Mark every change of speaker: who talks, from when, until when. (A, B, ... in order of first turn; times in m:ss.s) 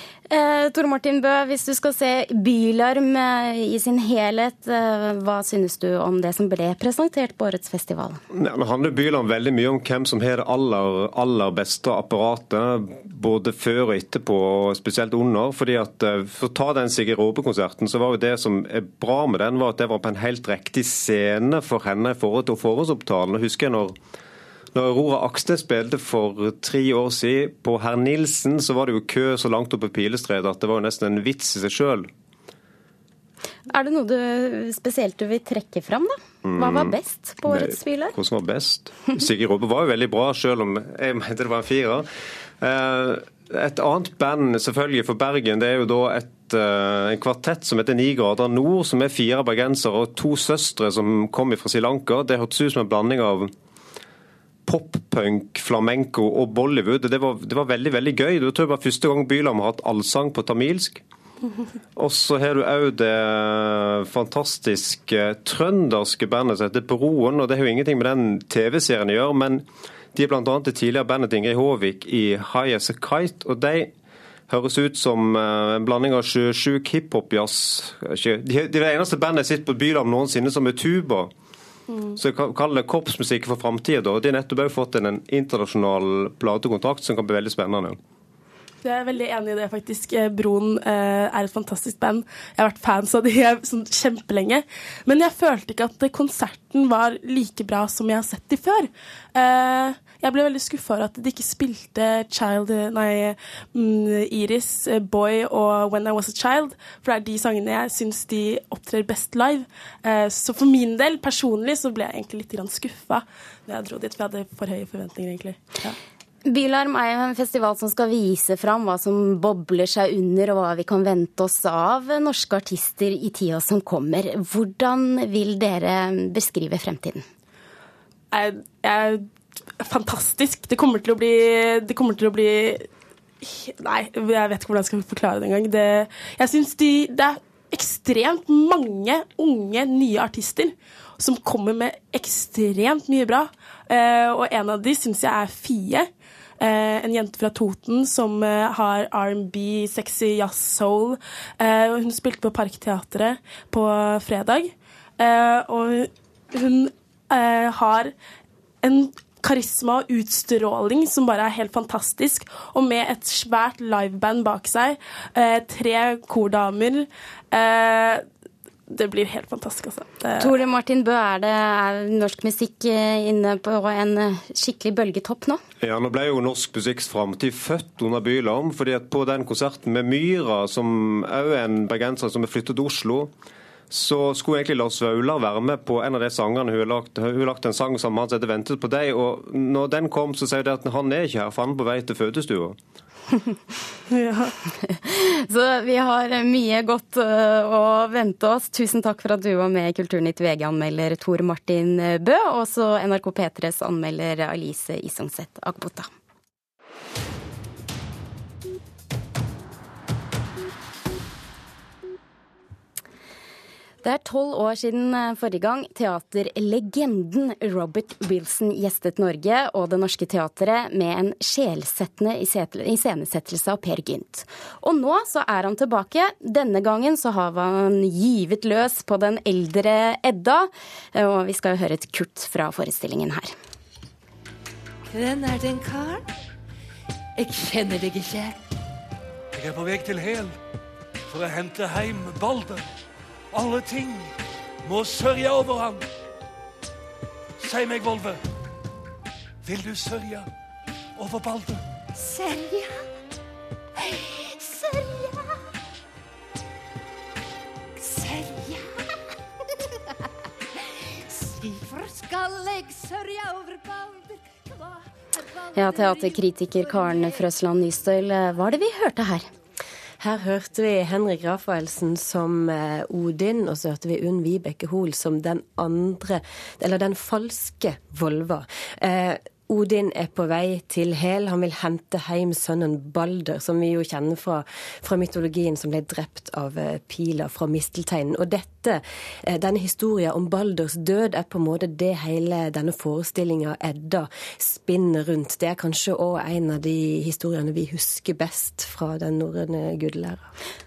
0:00.3-0:08.2 A
0:08.3-0:24.0 B
0:24.7-0:32.1 B
0:33.7-0:38.1 A
0:36.4-0:42.1 B
0:42.6-0:53.5 B
0:54.7-1:01.0 B
1:02.0-1:13.9 B
1:14.5-1:21.3 B
1:21.9-1:22.2 C
1:22.2-1:28.0 B
1:28.8-1:56.0 C
1:56.5-2:07.3 A
2:08.3-2:09.3 C
2:09.8-2:12.9 C
2:13.4-2:26.1 C
2:26.6-2:38.1 C
2:38.8-2:48.2 C
2:48.9-2:50.5 C
2:50.4-2:55.6 A
2:55.8-3:03.3 B
3:03.9-3:12.8 B
3:14.1-3:14.5 C
3:14.8-3:26.1 A
3:34.0-3:53.5 A
3:55.1-3:56.2 D
3:57.4-3:58.6 D
3:59.5-4:00.6 E
4:01.3-4:02.8 E
4:03.5-4:04.3 E
4:04.8-4:06.0 E
4:07.6-4:08.4 E
4:09.6-4:10.5 E
4:11.2-4:11.8 E
4:12.2-4:13.1 D
4:14.0-4:15.6 D
4:18.0-4:19.2 D
4:20.8-4:27.5 D
4:25.8-4:29.5 A
4:30.2-5:00.5 F